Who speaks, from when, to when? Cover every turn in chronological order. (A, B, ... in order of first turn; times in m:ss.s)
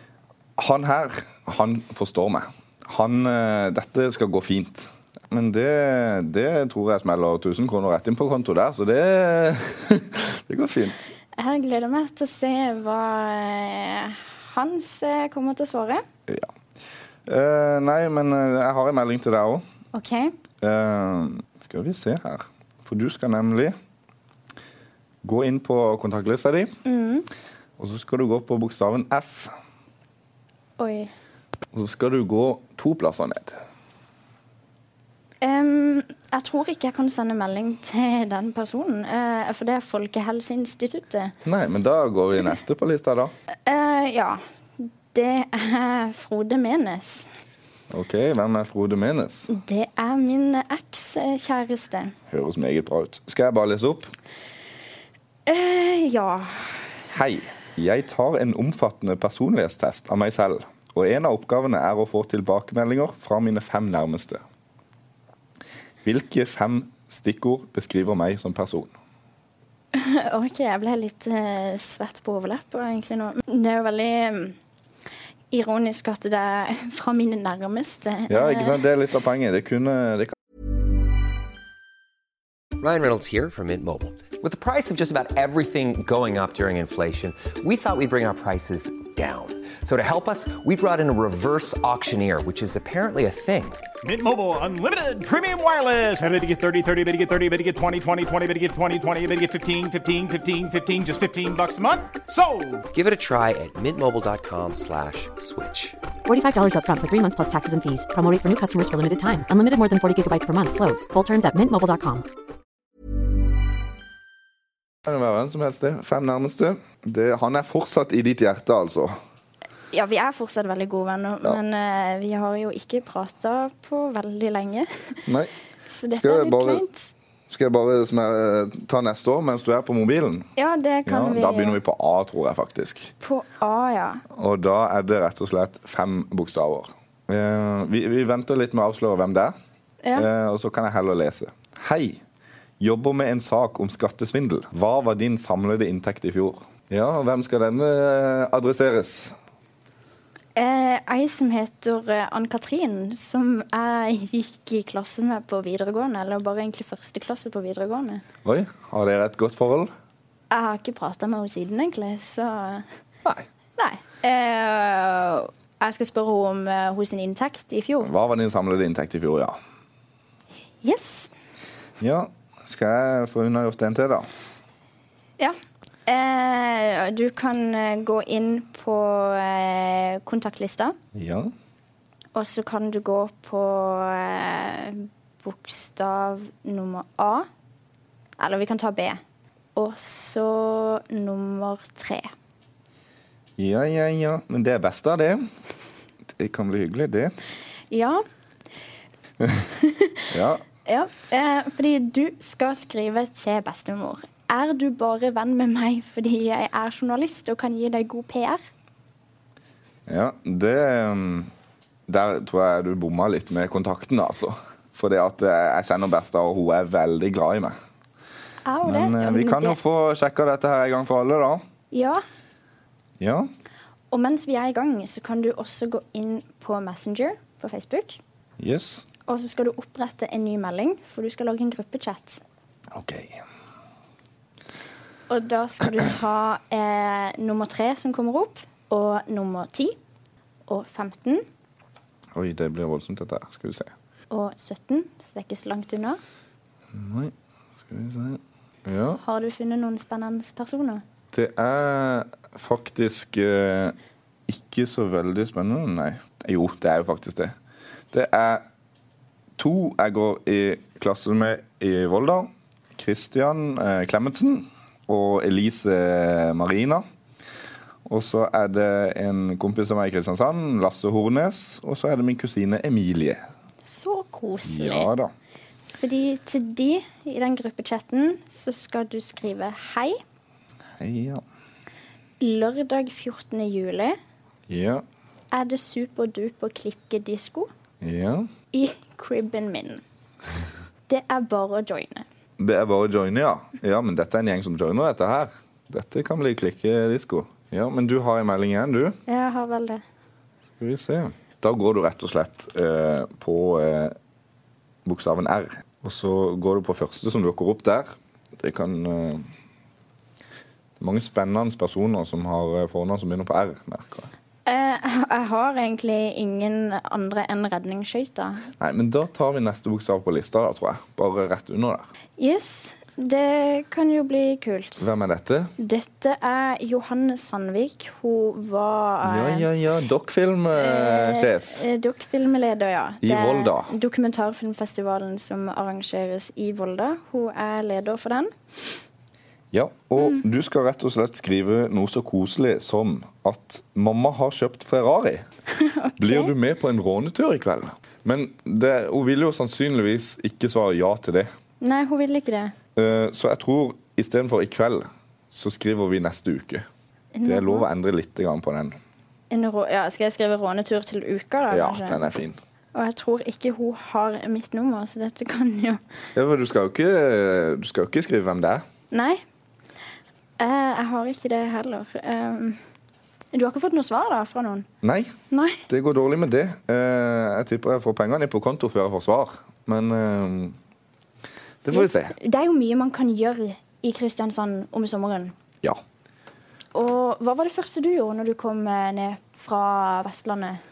0:00.6-0:11.1 A
0:11.4-0:16.0 B
0:17.2-0:19.6 A
0:19.9-0:20.3 B
0:20.6-0:23.7 A
0:25.2-0:26.7 A
0:26.8-0:27.3 B
0:27.8-0:29.5 A
0:30.8-0:31.1 B
0:31.7-0:33.6 A
0:35.4-0:41.3 B
0:41.4-0:43.3 A
0:43.6-0:47.3 B
0:47.9-0:49.5 A
0:49.5-0:52.1 B
0:52.3-0:54.1 A
0:55.5-0:56.8 B
0:57.1-1:04.4 A
1:06.0-1:08.9 A
1:09.9-1:14.6 B
1:15.5-1:18.8 B
1:18.3-1:20.3 A
1:22.8-1:33.8 C
1:34.0-1:42.8 D
1:42.9-1:46.0 C
1:46.2-1:52.2 E
1:55.0-1:59.1 A
1:59.9-2:05.3 B
2:05.2-2:05.5 A
2:05.9-2:07.1 B
2:06.1-2:06.8 A
2:07.5-2:10.5 A
2:10.6-2:11.8 B
2:11.0-2:13.1 A
2:13.2-2:14.2 B
2:14.3-2:19.5 A
2:20.0-2:20.3 B
2:20.1-2:22.2 A
2:22.8-2:29.3 A
2:30.6-2:38.2 B
2:38.4-2:39.9 A
2:40.5-2:42.8 B
2:43.8-2:48.1 B
2:48.0-2:49.6 A
2:50.8-2:51.3 B
2:52.0-2:54.3 A
2:56.1-3:01.0 B
3:01.1-3:01.5 A
3:02.3-3:07.4 B
3:08.4-3:09.2 B
3:09.8-3:12.3 B
3:13.6-3:15.4 A
3:16.3-3:17.3 A
3:17.9-3:18.2 B
3:19.8-3:20.2 B
3:20.3-3:20.6 A
3:20.8-3:28.6 B
3:30.1-3:31.5 A
3:32.1-3:37.8 A
3:38.6-3:39.8 B
3:38.8-3:41.6 A
3:41.9-3:42.2 B
3:43.2-3:43.5 A
3:44.1-3:48.2 B
3:48.6-3:49.0 A
3:49.3-3:52.4 B
3:52.9-3:53.4 A
3:55.3-4:00.0 B
4:00.7-4:01.4 B
4:02.3-4:03.9 A
4:04.3-4:06.2 B
4:06.9-4:07.3 A
4:07.9-4:09.2 A
4:09.2-4:11.0 B
4:11.3-4:14.0 A
4:14.5-4:17.5 A
4:18.1-4:18.6 A
4:19.6-4:27.0 A
4:28.0-4:33.4 A
4:33.8-4:35.1 B
4:34.6-4:35.3 A
4:36.0-4:40.2 B
4:41.0-4:41.4 A
4:42.4-4:44.2 B
4:44.7-4:45.0 A
4:45.5-4:47.7 B
4:48.0-4:48.5 A
4:48.7-4:50.0 B
4:51.1-4:52.2 B
4:52.6-4:59.2 A
4:59.3-5:00.0 B
5:00.8-5:04.2 A
5:05.0-5:09.4 A
5:11.0-5:14.3 A
5:14.6-5:18.6 B
5:18.8-5:22.1 A
5:22.4-5:25.0 B
5:25.0-5:25.7 A
5:25.8-5:29.7 B
5:29.2-5:31.8 A
5:30.7-5:38.5 B
5:33.2-5:33.9 A
5:39.7-5:45.4 A
5:45.7-5:46.5 B
5:46.2-5:51.5 A
5:51.8-5:52.7 B
5:53.0-5:56.8 A
5:57.3-5:57.8 B
5:57.4-5:59.0 A
5:59.5-6:02.2 B
6:01.7-6:02.6 A
6:02.9-6:06.0 B
6:06.3-6:08.8 A
6:09.1-6:09.4 B
6:10.6-6:12.8 B
6:13.5-6:14.9 B
6:15.0-6:15.3 A
6:15.5-6:15.8 B
6:15.9-6:20.8 A
6:21.8-6:22.3 A
6:21.9-6:25.5 B
6:26.9-6:30.8 B